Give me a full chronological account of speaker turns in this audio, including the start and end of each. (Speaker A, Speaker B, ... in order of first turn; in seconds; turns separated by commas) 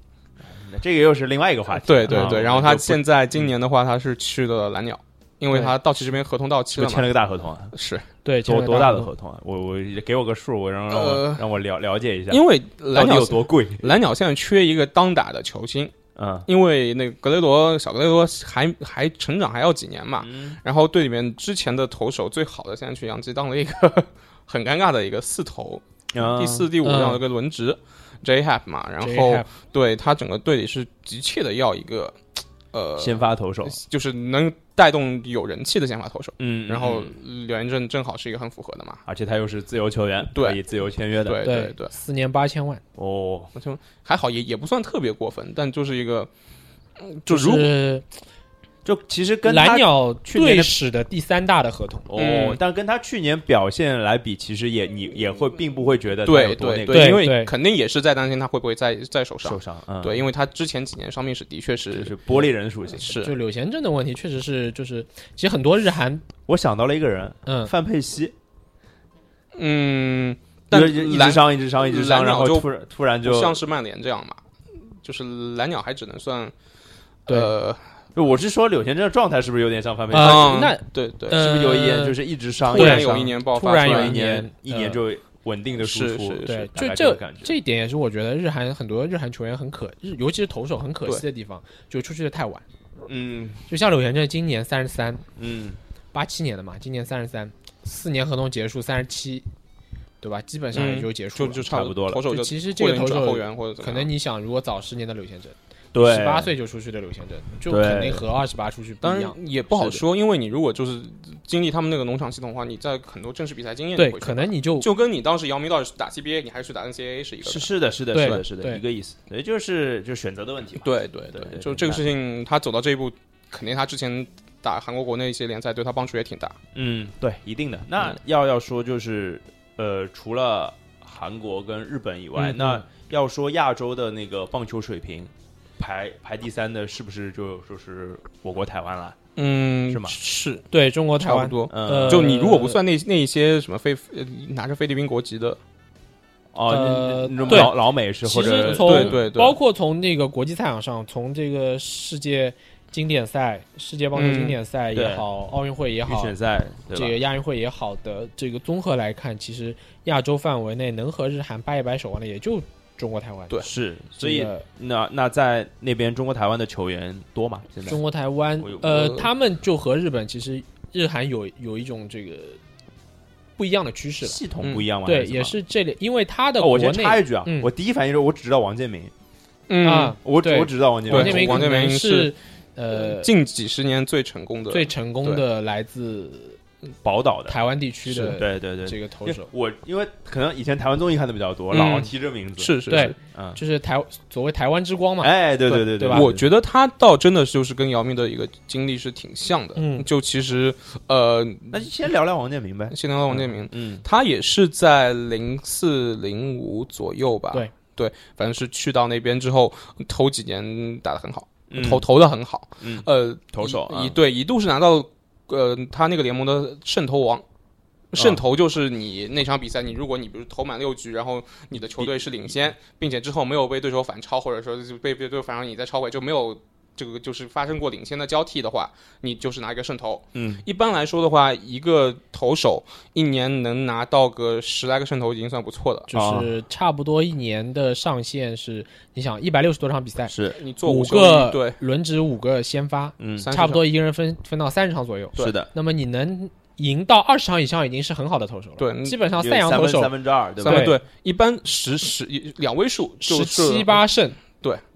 Speaker A: 0.4-3.5, Speaker B: 1.8-7.1, Speaker C: 2.1-2.4, Speaker A: 6.7-7.7, Speaker B: 7.7-8.1, Speaker C: 8.2-9.1, Speaker A: 8.4-13.9, Speaker B: 10.9-11.4, Speaker B: 12.3-15.9, Speaker A: 16.1-16.5, Speaker B: 16.4-32.2, Speaker A: 20.2-20.6, Speaker A: 26.1-26.7, Speaker C: 26.8-27.2, Speaker C: 29.0-29.5, Speaker B: 32.7-39.0, Speaker A: 33.0-33.8, Speaker A: 36.4-37.2, Speaker A: 39.0-41.4, Speaker B: 40.3-40.6, Speaker B: 41.2-41.9, Speaker C: 41.4-42.8, Speaker A: 43.0-43.5, Speaker B: 43.5-46.3, Speaker B: 47.0-47.7, Speaker C: 47.3-48.1, Speaker A: 48.8-50.7, Speaker C: 49.4-52.1, Speaker A: 52.1-57.2, Speaker B: 52.1-52.6, Speaker B: 56.2-62.1, Speaker C: 56.9-57.5, Speaker A: 59.4-60.2, Speaker A: 61.9-63.1, Speaker B: 63.0-63.3, Speaker C: 63.1-66.2, Speaker A: 66.5-68.3, Speaker C: 67.5-67.7, Speaker B: 69.5-72.7, Speaker A: 70.7-73.6, Speaker B: 73.2-74.4, Speaker B: 75.0-76.5, Speaker B: 77.3-77.8, Speaker C: 77.3-77.5, Speaker A: 78.1-80.6, Speaker C: 80.1-82.2, Speaker B: 80.2-81.4, Speaker A: 81.3-87.5, Speaker B: 82.6-84.2, Speaker C: 82.7-85.0, Speaker B: 85.8-86.7, Speaker C: 86.5-92.6, Speaker A: 93.1-93.6, Speaker C: 93.7-95.2, Speaker A: 95.3-95.8, Speaker C: 96.1-99.5, Speaker C: 100.2-101.7, Speaker B: 100.7-104.1, Speaker A: 101.7-102.3, Speaker C: 102.2-110.0, Speaker A: 105.9-106.5, Speaker A: 107.7-108.2, Speaker B: 109.0-118.4, Speaker C: 114.0-114.9, Speaker A: 117.4-122.0, Speaker C: 118.1-118.8, Speaker B: 120.8-126.6, Speaker A: 126.7-139.2, Speaker C: 132.4-132.8, Speaker B: 139.3-140.6, Speaker A: 139.9-140.2, Speaker C: 140.7-142.8, Speaker B: 141.2-145.6, Speaker A: 141.7-142.3, Speaker A: 146.5-149.2, Speaker C: 146.7-156.3, Speaker B: 148.4-149.6, Speaker B: 154.1-154.6, Speaker A: 154.9-155.2, Speaker A: 156.1-157.2, Speaker C: 156.9-163.6, Speaker A: 163.6-168.0, Speaker C: 164.1-164.6, Speaker C: 167.9-172.6, Speaker A: 168.6-169.0, Speaker B: 168.9-169.3, Speaker C: 173.6-174.4, Speaker A: 174.2-175.6, Speaker C: 175.0-177.7, Speaker A: 176.6-179.1, Speaker B: 179.7-180.2, Speaker C: 179.8-183.3, Speaker A: 180.2-181.7, Speaker B: 181.1-182.3, Speaker B: 182.9-185.4, Speaker C: 184.7-186.6, Speaker A: 187.0-193.6, Speaker C: 187.5-189.5, Speaker B: 191.7-193.1, Speaker C: 192.9-195.3, Speaker A: 195.2-196.4, Speaker B: 195.7-201.9, Speaker C: 195.8-196.3, Speaker C: 199.8-200.1, Speaker A: 201.7-204.0, Speaker B: 202.9-217.4, Speaker A: 211.7-212.1, Speaker A: 212.8-214.2, Speaker B: 218.1-236.1, Speaker A: 230.3-230.6, Speaker C: 236.1-250.1, Speaker A: 236.1-236.5, Speaker A: 240.3-240.6, Speaker B: 240.6-241.8, Speaker A: 243.2-243.5, Speaker B: 243.4-243.8, Speaker A: 245.3-245.7, Speaker B: 248.8-249.2, Speaker A: 249.4-250.9, Speaker B: 250.6-254.8, Speaker C: 250.6-251.0, Speaker C: 253.2-254.4